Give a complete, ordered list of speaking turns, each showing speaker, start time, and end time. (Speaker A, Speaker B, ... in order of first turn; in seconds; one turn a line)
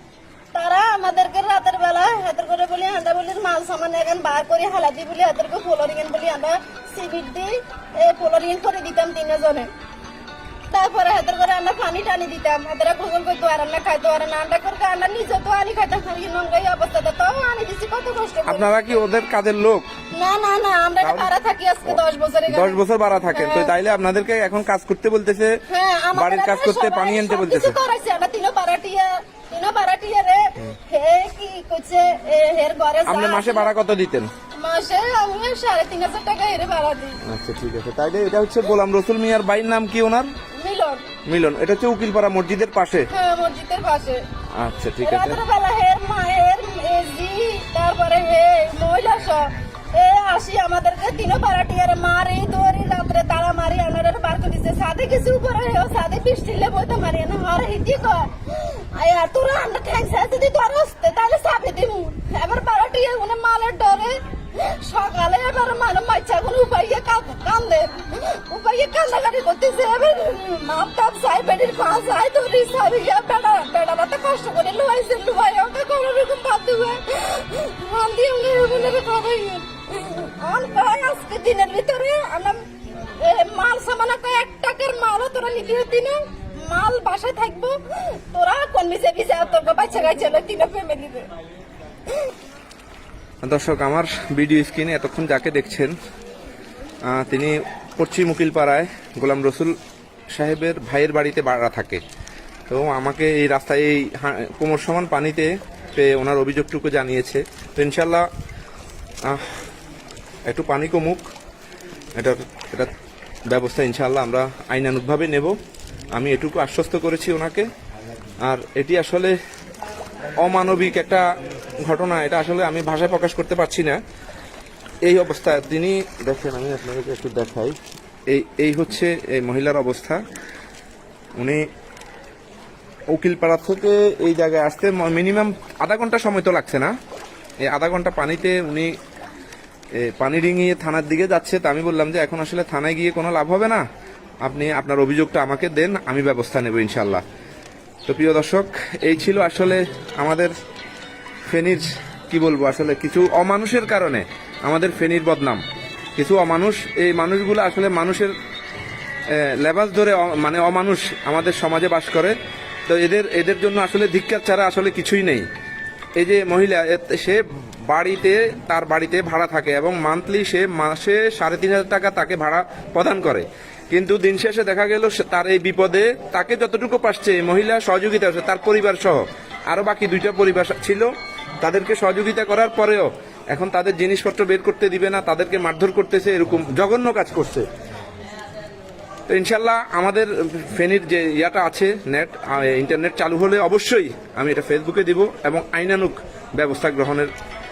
Speaker A: 0.5-9.7
Speaker A: 10.7-18.8
Speaker B: 18.5-19.9
Speaker A: 20.1-22.8
Speaker B: 21.0-21.3
Speaker B: 22.5-25.6
Speaker A: 23.3-23.7
Speaker A: 25.7-33.7
Speaker B: 26.1-27.8
Speaker B: 33.1-34.3
Speaker A: 34.6-37.2
Speaker B: 37.2-40.3
Speaker A: 40.6-41.1
Speaker B: 41.3-43.1
Speaker A: 43.1-44.2
Speaker B: 44.6-45.4
Speaker A: 45.0-91.3
Speaker B: 93.4-95.9
Speaker B: 97.1-99.8
Speaker B: 100.3-102.0
Speaker B: 102.7-108.3
Speaker B: 109.3-109.5
Speaker B: 110.5-111.2
Speaker B: 112.2-112.9
Speaker B: 113.5-115.5
Speaker B: 116.2-117.7
Speaker B: 118.4-119.4
Speaker B: 120.4-121.3
Speaker B: 121.8-124.0
Speaker B: 125.0-127.8
Speaker B: 128.3-130.2
Speaker B: 131.4-131.6
Speaker B: 133.1-136.9
Speaker B: 137.7-138.9
Speaker B: 140.0-143.8
Speaker B: 144.4-147.2
Speaker B: 148.1-150.5
Speaker B: 151.5-155.6
Speaker B: 156.2-158.3
Speaker B: 159.3-162.4
Speaker B: 162.9-165.5
Speaker B: 166.2-181.1
Speaker B: 181.6-187.7
Speaker B: 189.3-197.3